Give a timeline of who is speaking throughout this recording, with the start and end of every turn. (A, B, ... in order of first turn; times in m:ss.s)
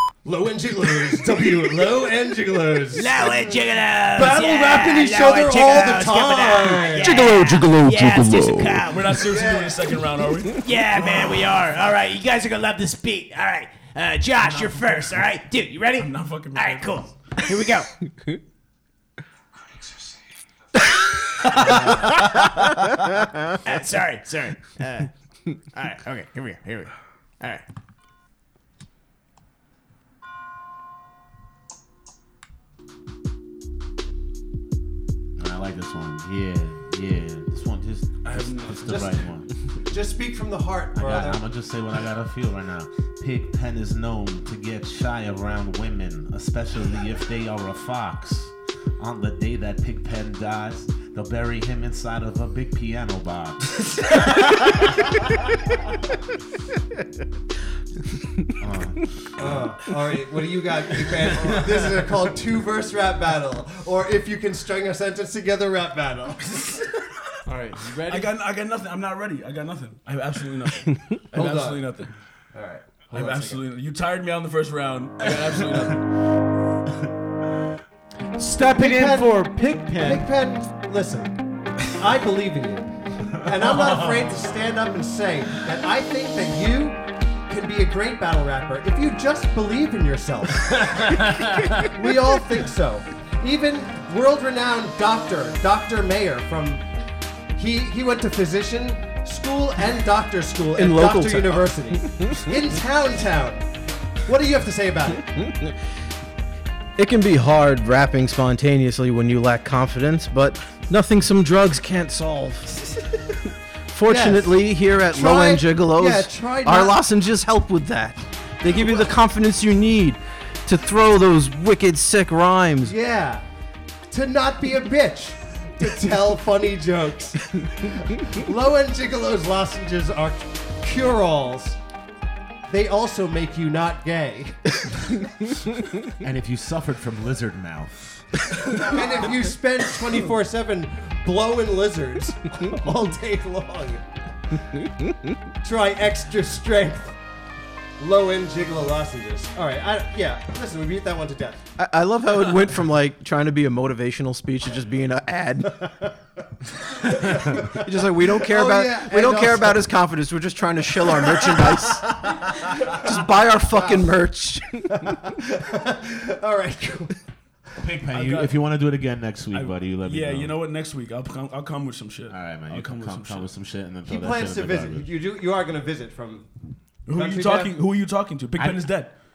0:00.2-0:03.4 A
0:03.0-0:09.2 B
0:04.1-0:07.3 A
0:07.0-0:08.7 C
0:08.4-0:08.8 D
0:08.8-0:11.5 E
0:09.2-0:09.9 A
0:10.6-0:17.9 B
0:14.4-0:15.1 E
0:16.0-0:17.1 E
0:17.4-0:17.8 F
0:21.4-0:22.5 B
0:21.5-0:22.2 E
0:23.6-0:25.1 B
0:25.6-0:27.6 B
0:35.4-0:39.5 D
0:38.2-0:39.1 E
0:38.9-0:39.2 A
0:39.8-0:41.4 A
0:40.9-0:53.8 D
0:58.6-0:59.7 D
0:59.4-1:06.8 A
1:07.4-1:08.3 F
1:08.1-1:12.1 E
1:11.3-1:11.9 A
1:12.5-1:13.6 A
1:13.1-1:16.1 E
1:18.4-1:20.2 F
1:18.7-1:36.8 A
1:23.4-1:24.3 D
1:30.9-1:31.8 D
1:37.6-1:43.7 A
1:40.8-1:41.8 C
1:44.2-1:45.3 A
1:47.0-1:52.9 C
1:53.9-2:02.9 C
1:54.0-1:54.6 A
1:55.1-1:57.0 A
1:58.7-1:59.1 A
2:02.8-2:03.4 A
2:04.1-2:11.8 A
2:12.7-2:14.8 A
2:16.2-2:18.2 D
2:18.7-2:24.0 A
2:25.6-2:27.2 A
2:28.0-2:31.6 A
2:31.8-2:35.8 C
2:35.6-2:36.2 A
2:37.0-2:39.8 A
2:37.5-2:44.9 C
2:42.7-2:43.1 A
2:44.9-2:47.2 A
2:47.8-2:50.5 D
2:48.1-2:48.5 E
2:49.5-2:53.5 E
2:52.3-2:55.1 D
2:54.0-2:56.5 A
2:57.1-2:59.1 E
2:57.1-2:57.7 A
2:58.6-2:58.9 D